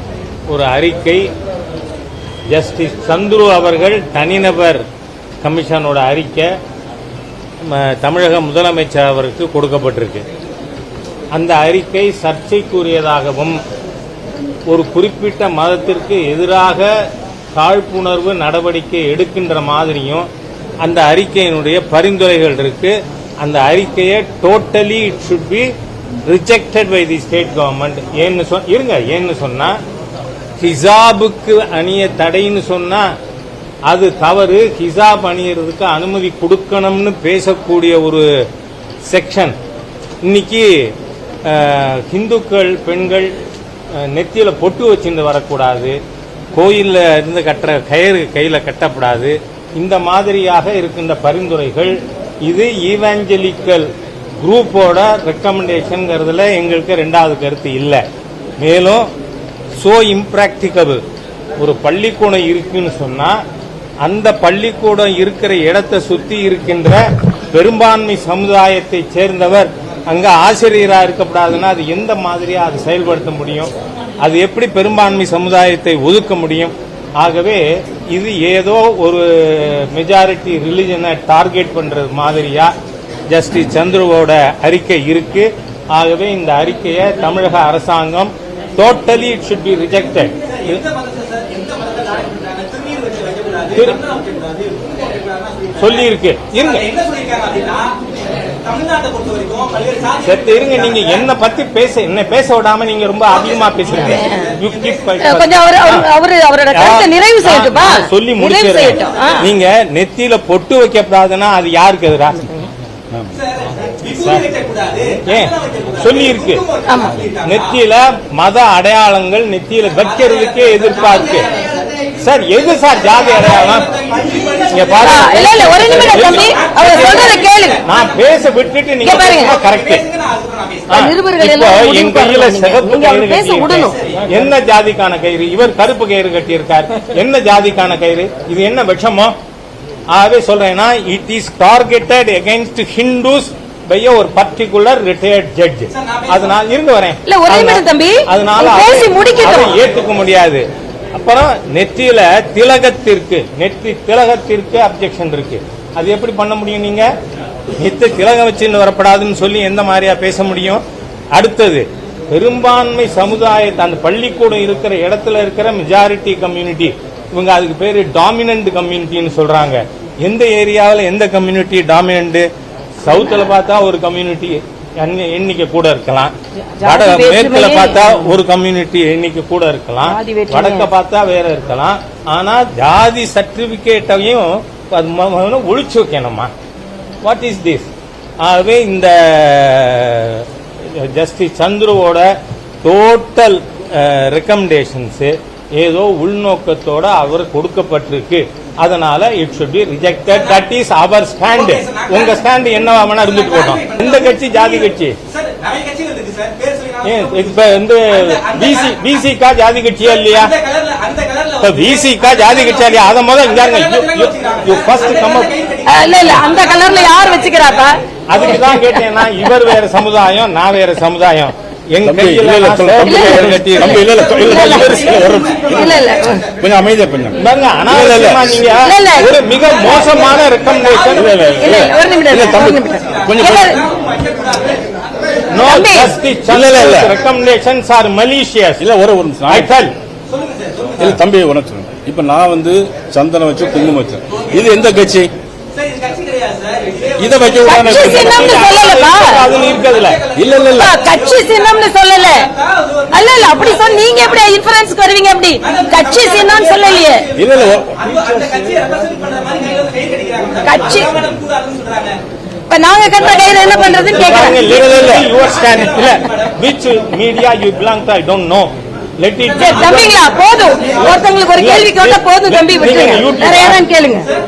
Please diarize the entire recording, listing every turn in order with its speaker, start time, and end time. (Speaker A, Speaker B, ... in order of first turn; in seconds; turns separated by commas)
Speaker A: 0.5-1.3, Speaker A: 2.5-4.8, Speaker A: 5.4-6.5, Speaker A: 7.6-10.2, Speaker A: 11.3-13.6, Speaker A: 14.7-16.9, Speaker A: 17.5-20.3, Speaker A: 20.8-25.7, Speaker A: 26.2-29.8, Speaker A: 30.6-33.1, Speaker A: 33.9-38.3, Speaker A: 39.1-39.5, Speaker A: 40.2-40.9, Speaker A: 41.5-43.3, Speaker A: 44.0-46.0, Speaker A: 46.5-53.9, Speaker A: 54.4-58.0, Speaker A: 58.6-59.1, Speaker A: 59.8-61.0, Speaker A: 61.6-63.4, Speaker A: 64.0-73.7, Speaker A: 74.2-82.7, Speaker A: 83.3-90.8, Speaker B: 90.7-95.7, Speaker A: 93.7-94.0, Speaker A: 95.8-96.9, Speaker B: 96.7-98.0, Speaker B: 98.6-101.1, Speaker A: 100.2-106.1, Speaker C: 104.1-104.5, Speaker B: 104.2-105.0, Speaker C: 105.2-109.5, Speaker A: 106.7-112.5, Speaker B: 113.4-117.6, Speaker A: 114.1-114.5, Speaker A: 115.2-116.6, Speaker C: 116.9-117.2, Speaker A: 117.4-121.5, Speaker B: 120.1-121.7, Speaker A: 122.2-123.9, Speaker B: 123.1-125.5, Speaker A: 124.7-130.0, Speaker C: 125.0-127.8, Speaker B: 126.1-128.1, Speaker C: 129.0-129.5, Speaker B: 129.1-130.9, Speaker A: 130.9-139.3, Speaker C: 130.9-134.0, Speaker A: 140.1-157.1, Speaker C: 147.3-149.8, Speaker A: 157.8-160.8, Speaker A: 161.3-172.5, Speaker A: 173.0-176.3, Speaker C: 176.8-178.3, Speaker A: 176.8-186.5, Speaker C: 180.0-180.9, Speaker A: 187.2-187.9, Speaker A: 188.4-192.3, Speaker A: 192.8-205.2, Speaker B: 201.6-202.3, Speaker B: 203.4-204.6, Speaker B: 205.3-207.5, Speaker A: 207.0-210.5, Speaker B: 208.1-208.9, Speaker B: 210.3-212.9, Speaker A: 211.6-215.5, Speaker B: 213.5-217.8, Speaker C: 215.8-218.0, Speaker A: 218.3-225.1, Speaker C: 218.5-219.0, Speaker D: 222.0-228.7, Speaker C: 223.1-225.0, Speaker B: 224.9-225.8, Speaker C: 225.7-226.5, Speaker A: 227.4-231.4, Speaker C: 228.8-230.1, Speaker B: 230.2-232.4, Speaker D: 231.1-233.8, Speaker C: 231.4-233.8, Speaker B: 233.0-235.0, Speaker A: 235.5-238.8, Speaker C: 235.6-236.2, Speaker D: 236.5-237.2, Speaker D: 238.8-239.7, Speaker A: 239.5-239.9, Speaker B: 240.4-240.9, Speaker D: 241.0-245.3, Speaker B: 245.7-248.5, Speaker D: 247.2-248.6, Speaker C: 247.6-249.4, Speaker A: 247.9-250.2, Speaker B: 249.4-253.9, Speaker D: 250.3-251.0, Speaker C: 250.7-252.5, Speaker C: 253.1-257.2, Speaker B: 255.6-257.3, Speaker D: 257.4-258.6, Speaker B: 258.0-262.2, Speaker C: 260.6-261.2, Speaker C: 262.7-264.6, Speaker D: 263.4-265.3, Speaker A: 264.1-270.0, Speaker B: 264.8-266.4, Speaker B: 269.6-271.2, Speaker C: 269.6-274.3, Speaker A: 271.6-273.8